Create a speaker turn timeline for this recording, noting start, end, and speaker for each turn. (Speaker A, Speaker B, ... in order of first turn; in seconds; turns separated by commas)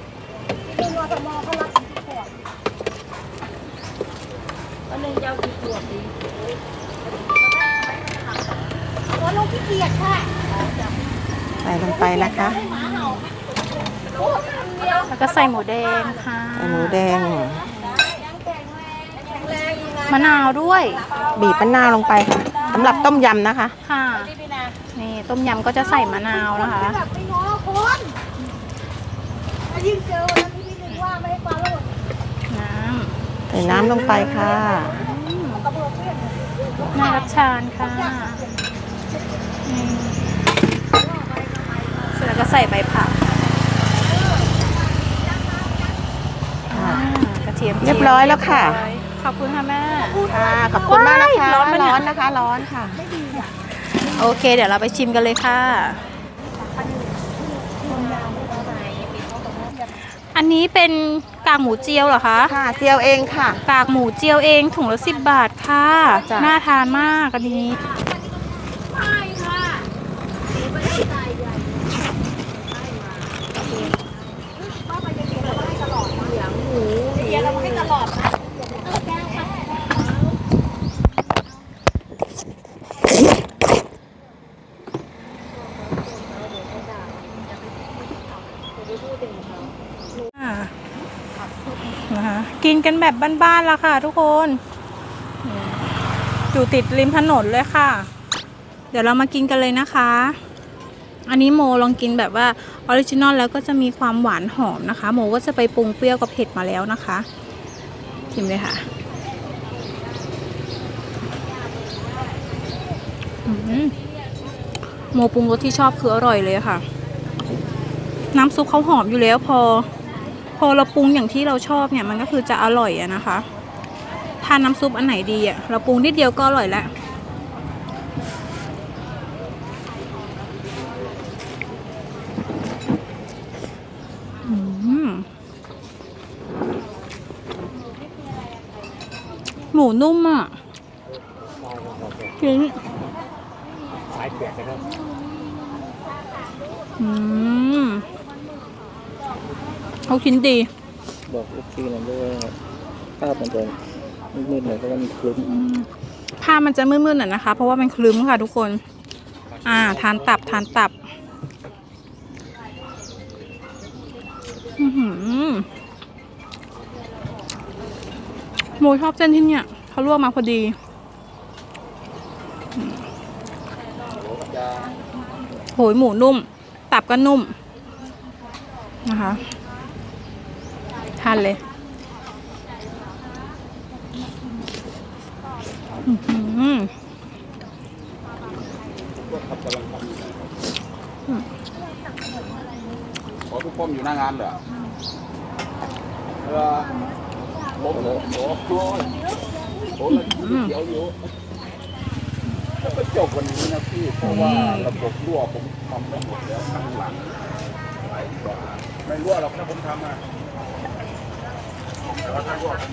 Speaker A: 0.7-2.3, Speaker A: 5.0-6.1, Speaker A: 9.2-10.4, Speaker B: 11.6-12.6, Speaker A: 12.0-12.9, Speaker C: 12.4-13.3, Speaker A: 14.1-15.1, Speaker C: 15.0-17.1, Speaker B: 16.6-17.7, Speaker C: 17.7-18.0, Speaker A: 18.0-20.1, Speaker C: 20.1-21.1, Speaker A: 21.1-21.4, Speaker B: 21.3-23.7, Speaker A: 22.5-22.8, Speaker C: 22.6-23.1, Speaker C: 23.8-24.3, Speaker C: 24.9-27.0, Speaker A: 26.2-28.2, Speaker A: 29.7-32.0, Speaker C: 30.9-31.1, Speaker C: 32.5-35.7, Speaker B: 33.5-35.0, Speaker A: 34.6-35.0, Speaker A: 35.5-37.0, Speaker C: 36.9-38.4, Speaker A: 37.8-38.7, Speaker C: 39.6-40.3, Speaker C: 42.1-43.2, Speaker C: 46.7-50.2, Speaker B: 46.7-47.0, Speaker B: 47.8-48.8, Speaker A: 50.1-50.5, Speaker B: 50.2-53.0, Speaker C: 50.9-52.1, Speaker A: 53.0-53.5, Speaker C: 53.3-56.0, Speaker A: 56.4-59.9, Speaker C: 60.3-62.5, Speaker B: 62.5-63.6, Speaker C: 63.6-67.8, Speaker B: 66.1-66.6, Speaker A: 69.1-69.7, Speaker A: 70.8-71.6, Speaker A: 74.7-79.4, Speaker C: 77.2-77.6, Speaker A: 86.1-87.2, Speaker A: 88.8-89.7, Speaker C: 90.4-90.7, Speaker C: 92.1-94.6, Speaker C: 95.4-96.0, Speaker C: 96.5-98.1, Speaker C: 98.9-100.4, Speaker C: 101.3-107.2, Speaker C: 108.3-108.8, Speaker C: 113.5-114.0, Speaker C: 115.1-116.8, Speaker C: 118.3-119.9, Speaker C: 120.6-123.5, Speaker C: 124.4-126.9, Speaker C: 134.4-135.3, Speaker C: 139.7-140.6, Speaker C: 142.4-142.8, Speaker D: 144.3-144.7, Speaker C: 147.0-148.1, Speaker C: 150.1-150.7, Speaker D: 151.3-152.5, Speaker D: 153.2-153.8, Speaker D: 154.3-155.4, Speaker C: 155.4-155.9, Speaker C: 156.4-158.8, Speaker C: 159.6-160.9, Speaker C: 164.8-165.7, Speaker C: 168.8-170.8, Speaker C: 172.8-173.0, Speaker E: 174.2-174.9, Speaker C: 175.7-177.5, Speaker C: 179.0-179.4, Speaker C: 181.2-181.6, Speaker C: 186.1-186.9, Speaker E: 189.3-190.2, Speaker E: 193.5-194.6, Speaker E: 196.6-196.8, Speaker E: 197.9-199.1, Speaker C: 200.1-200.8, Speaker E: 200.3-201.1, Speaker E: 203.0-207.2, Speaker C: 204.2-205.0, Speaker E: 208.2-210.2, Speaker E: 212.4-212.7